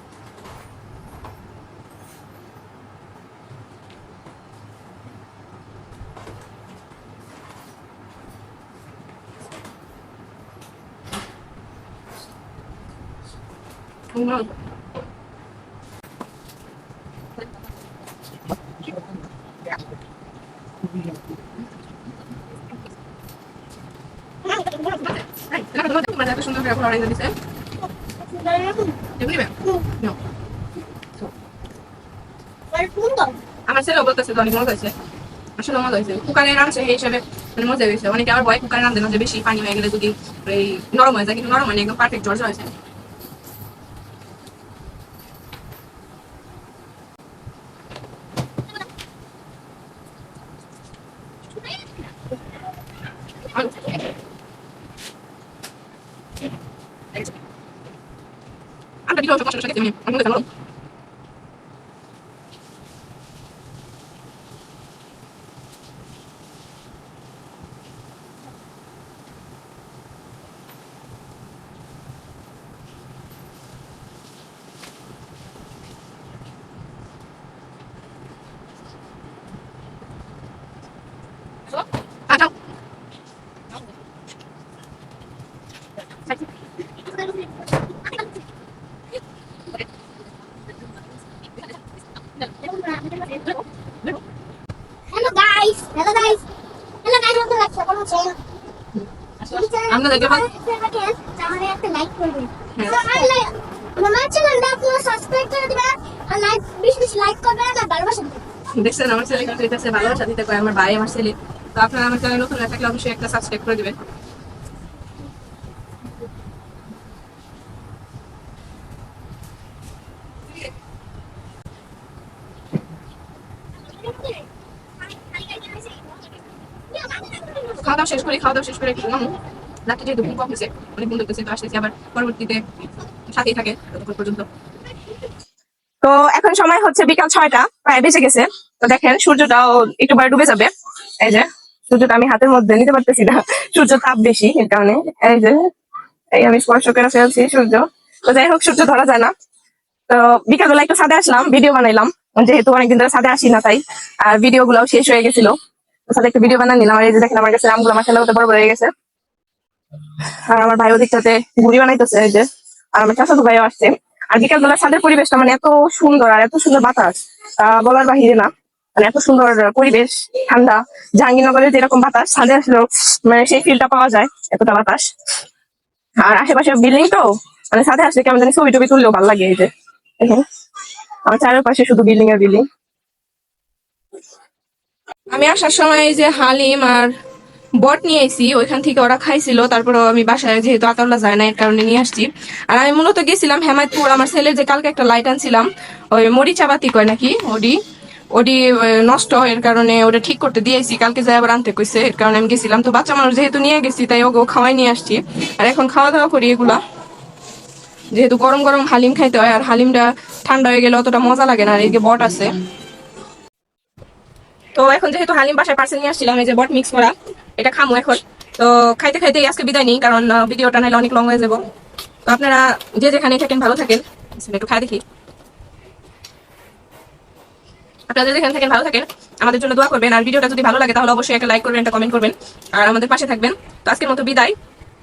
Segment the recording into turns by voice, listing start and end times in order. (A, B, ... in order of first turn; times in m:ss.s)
0:14.1-0:14.6 A
0:24.5-0:25.1 B
0:24.9-0:27.4 A
0:28.2-0:29.0 B
0:29.2-0:30.2 A
0:32.7-0:33.4 B
0:33.7-0:35.0 A
0:35.6-0:42.7 A
0:53.5-0:54.0 A
0:59.1-1:00.5 A
1:27.2-1:27.5 B
1:32.6-1:33.5 B
1:35.1-1:36.4 B
1:37.0-1:38.4 B
1:39.4-1:48.4 B
1:39.9-1:40.5 A
1:42.8-1:43.3 A
1:48.7-1:54.0 A
2:04.0-2:04.4 B
2:05.3-2:06.0 B
2:06.9-2:07.8 B
2:07.7-2:09.4 A
2:09.9-2:12.6 A
2:13.3-2:14.5 A
2:16.0-2:25.7 A
2:26.3-2:29.3 A
2:30.1-2:35.6 A
2:36.1-2:38.9 A
2:40.5-2:55.1 A
2:56.2-2:59.7 A
3:00.2-3:00.4 A
3:01.3-3:02.6 A
3:05.3-3:07.1 A
3:07.8-3:17.8 A
3:18.4-3:26.8 A
3:28.1-3:32.6 A
3:34.8-3:41.6 A
3:42.2-3:45.0 A
3:48.1-3:54.6 A